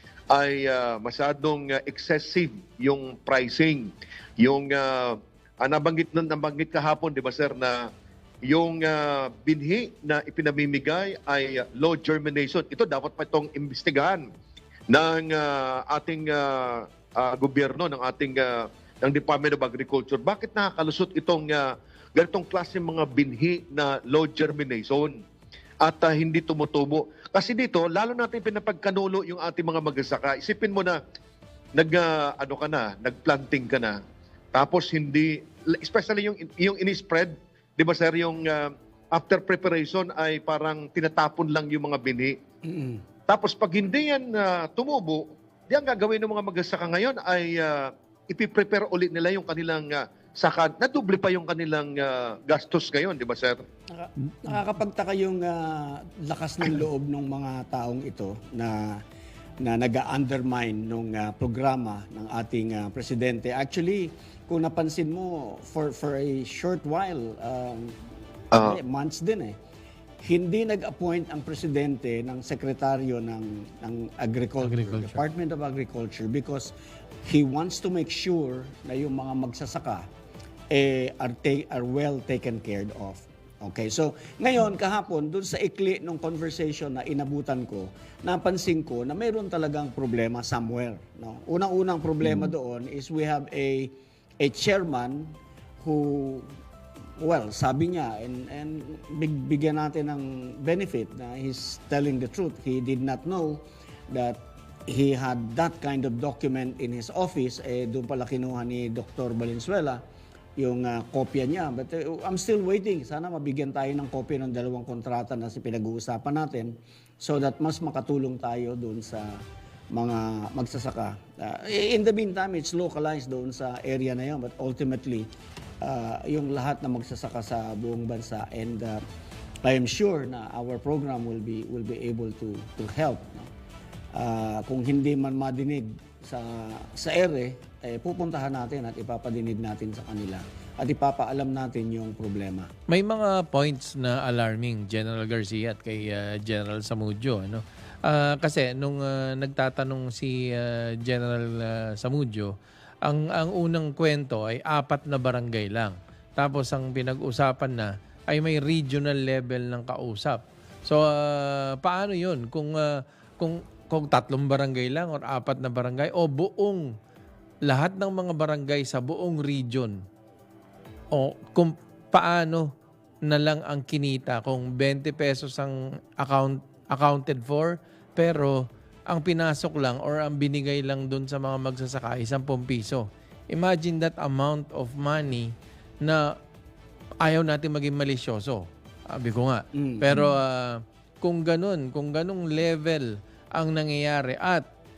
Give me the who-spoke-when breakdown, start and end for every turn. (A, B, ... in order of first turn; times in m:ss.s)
0:00.3-0:07.9 A
0:08.5-0:14.3 A
0:14.9-0:25.2 A
0:25.8-0:31.0 A
0:31.8-0:34.0 A
0:34.5-0:42.4 A
0:42.6-0:43.0 B
0:43.3-0:53.6 A
0:53.9-0:59.0 B
0:59.6-1:08.0 B
1:08.6-1:09.6 B
1:10.2-1:16.7 B
1:14.6-1:15.2 C
1:17.2-1:20.1 B
1:20.7-1:36.5 B
1:37.2-1:50.0 B
1:50.6-1:59.4 B
1:59.9-2:09.0 B
2:09.6-2:13.5 B
2:14.1-2:22.7 B
2:22.9-2:46.9 C
2:47.7-2:50.0 C
2:51.1-2:52.7 C
2:53.2-3:06.3 C
3:07.2-3:14.6 C
3:09.7-3:10.3 B